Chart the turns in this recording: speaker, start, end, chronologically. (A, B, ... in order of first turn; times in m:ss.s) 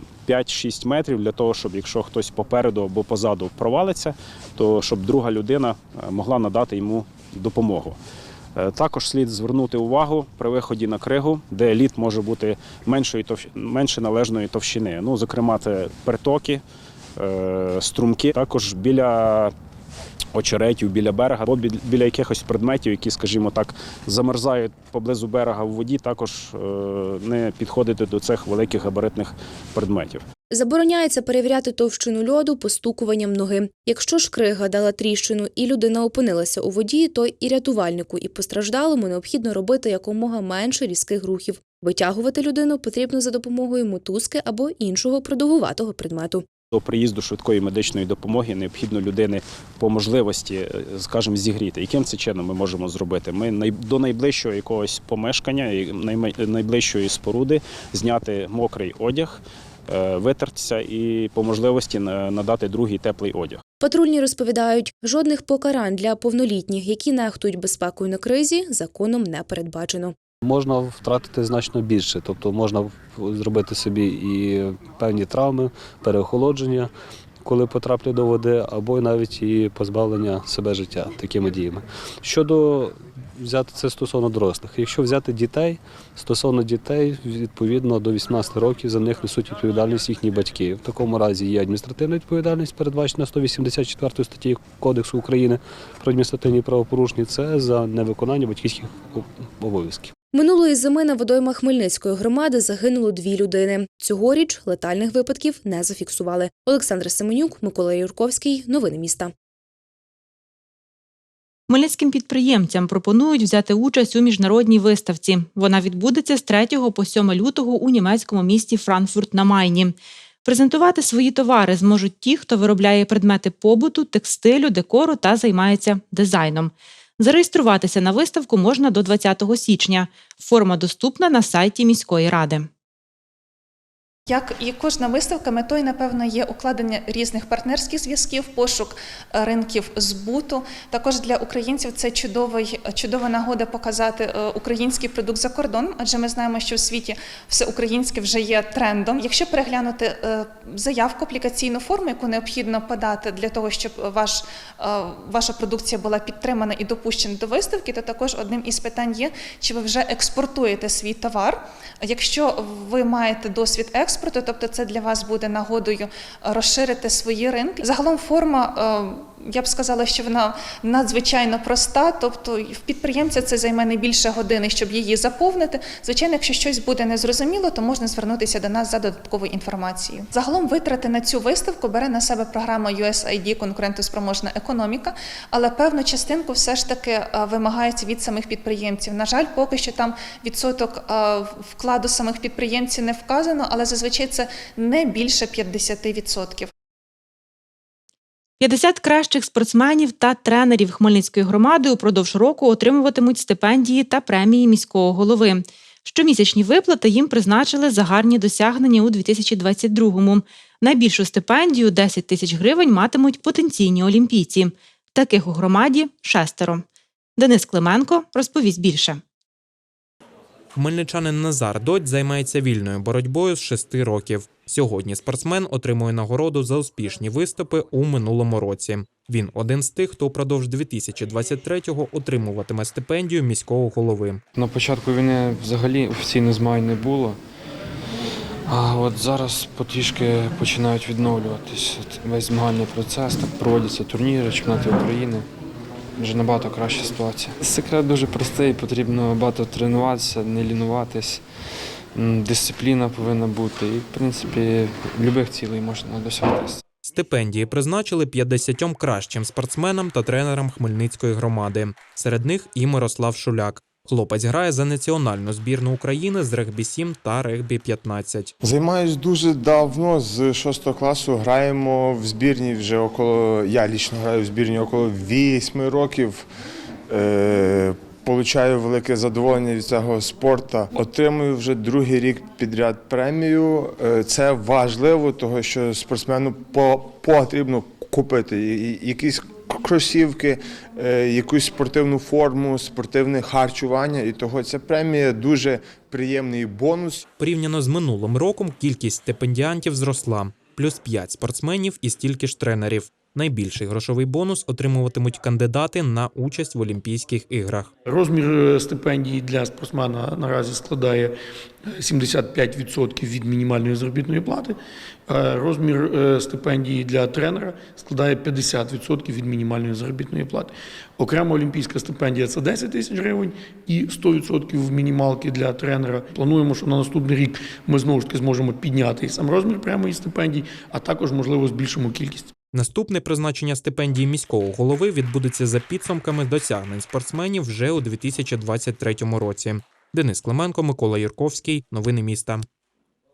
0:00.2-0:08.0 A
0:08.6-0:16.6 A
0:17.2-0:19.5 A
0:20.3-0:30.2 A
0:30.5-0:46.4 B
0:46.7-1:03.6 A
1:03.8-1:10.1 B
1:10.4-1:16.9 C
1:17.4-1:40.1 C
1:40.3-1:49.3 B
1:51.7-2:12.7 D
2:14.3-3:16.7 E
3:18.6-3:36.8 D
3:37.4-3:39.2 D
3:40.8-3:54.4 F
3:54.5-3:57.4 G
3:58.6-4:05.5 G
4:06.2-4:11.5 G
4:12.1-4:16.8 G
4:17.1-4:28.5 F
4:28.6-4:36.4 H
4:37.1-4:57.3 H
4:57.3-5:07.9 F
5:08.0-5:11.3 I
5:11.9-5:32.5 I
5:32.7-5:42.6 F